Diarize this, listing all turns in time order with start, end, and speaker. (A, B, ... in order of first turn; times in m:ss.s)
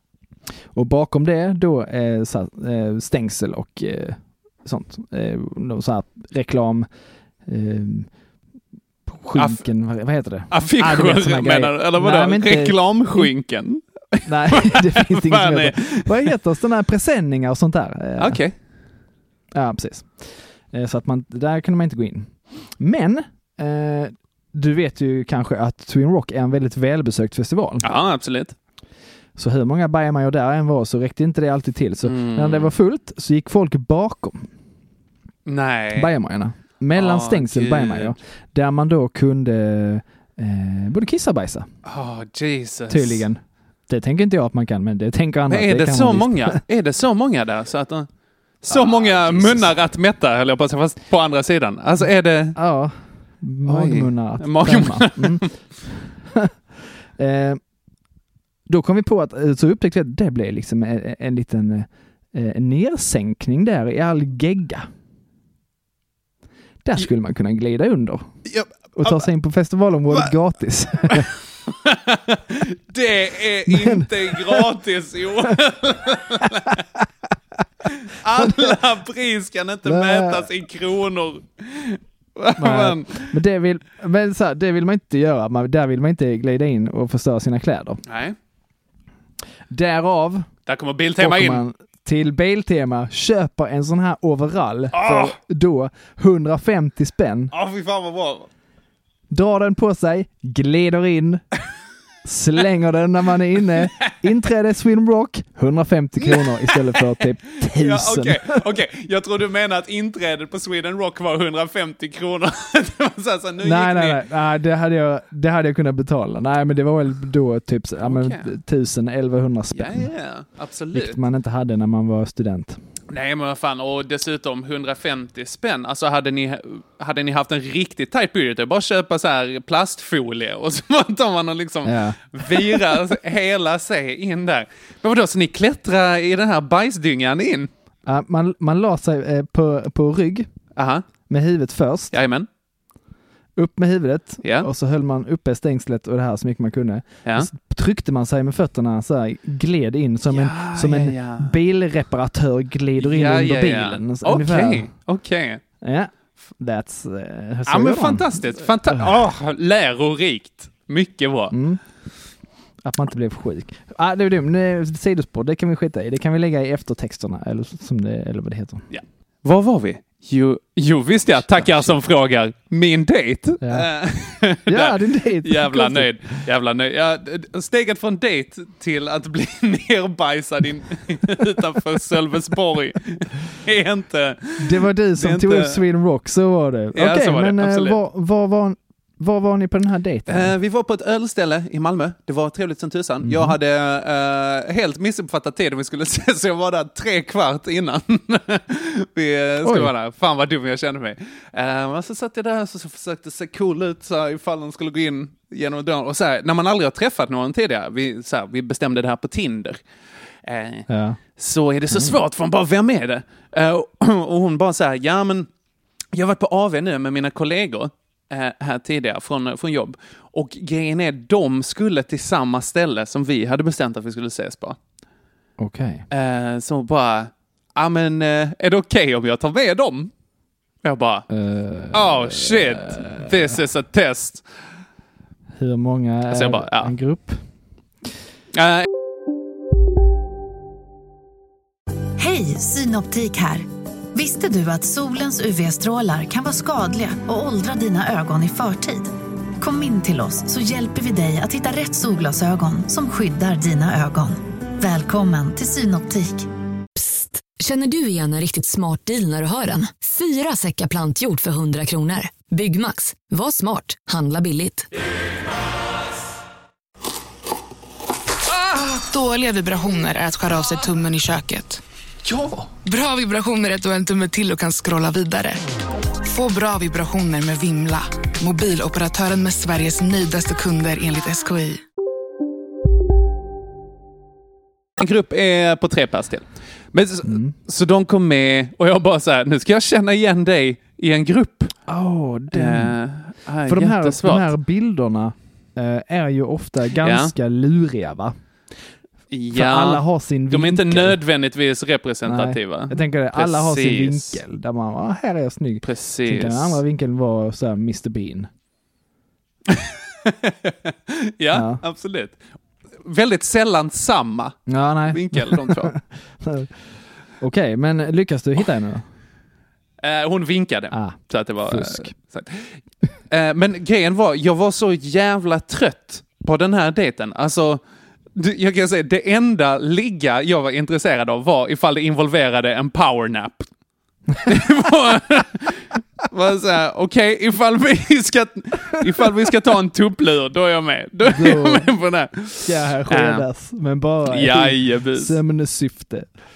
0:00.7-0:06.9 A
0:07.5-0:08.1 A
0:09.1-0:13.3 A
0:09.3-0:09.6 B
0:10.5-0:16.3 B
0:14.2-0:18.4 A
0:18.2-0:18.5 B
0:19.5-0:27.9 A
0:27.8-0:28.6 B
0:29.4-0:34.5 A
0:32.0-0:32.7 B
0:35.5-0:36.1 B
0:36.0-0:41.7 A
0:37.0-0:38.2 B
0:41.8-0:43.2 B
0:42.9-0:46.6 A
0:45.5-0:48.1 B
0:48.6-0:52.6 B
0:48.7-0:49.7 A
0:52.6-0:56.5 A
0:53.7-0:55.5 B
0:57.2-0:57.6 A
0:58.7-1:04.9 A
1:06.8-1:08.3 A
1:08.5-1:09.2 B
1:09.0-1:11.3 A
1:11.7-1:16.8 B
1:13.7-1:14.6 A
1:17.9-1:23.3 B
1:18.3-1:18.8 A
1:19.8-1:20.5 A
1:22.6-1:28.0 A
1:28.1-1:28.4 B
1:29.7-1:30.5 A
1:30.7-1:31.6 B
1:31.2-1:37.5 A
1:34.9-1:35.4 B
1:37.5-1:38.5 B
1:39.3-1:41.4 A
1:42.2-1:48.6 A
1:46.2-1:54.2 B
1:53.6-2:00.1 A
1:58.0-1:58.5 B
1:59.7-2:01.2 B
2:00.9-2:02.8 A
2:03.1-2:17.7 B
2:11.8-2:13.0 A
2:18.1-2:20.5 A
2:20.8-2:21.1 B
2:21.3-2:22.2 A
2:22.1-2:22.5 B
2:23.6-2:34.9 A
2:24.4-2:24.7 B
2:30.3-2:31.6 B
2:33.0-2:35.6 B
2:35.8-2:39.1 A
2:37.7-2:41.6 B
2:41.5-2:41.8 A
2:42.8-2:48.8 A
2:48.9-3:05.8 B
2:51.4-2:51.9 A
2:53.6-2:53.9 A
2:54.7-2:56.2 A
3:04.6-3:10.5 A
3:06.9-3:08.0 B
3:10.3-3:29.8 B
3:13.2-3:13.6 A
3:19.6-3:19.9 A
3:30.4-3:35.5 B
3:30.9-3:31.2 A
3:31.9-3:32.2 A
3:36.1-3:44.8 B
3:45.6-3:46.0 A
3:46.1-3:50.1 B
3:50.8-3:51.3 B
3:51.3-3:53.6 A
3:51.9-3:54.4 B
3:55.6-3:57.4 A
3:56.3-3:56.9 B
3:58.5-3:58.9 B
4:02.2-4:16.5 C
4:17.0-4:24.9 D
4:28.9-4:31.8 E
4:32.8-4:35.6 E
4:36.2-4:41.8 E
4:45.0-4:51.7 B
4:47.3-4:47.5 A
4:51.9-4:53.0 A
4:52.5-4:54.5 B
4:53.7-4:58.4 A
4:57.0-4:57.3 B
4:59.3-5:04.4 B
4:59.5-5:01.2 A
5:02.3-5:08.5 A
5:05.8-5:06.8 B
5:09.7-5:12.4 B
5:11.5-5:11.8 A
5:13.0-5:15.9 B
5:14.7-5:16.7 A
5:17.4-5:19.1 A
5:20.0-5:22.7 B
5:20.9-5:22.1 A
5:23.3-5:27.8 B
5:28.4-5:33.7 B
5:34.5-5:43.4 B
5:41.2-5:41.9 A
5:42.6-5:46.3 A
5:44.3-5:45.4 B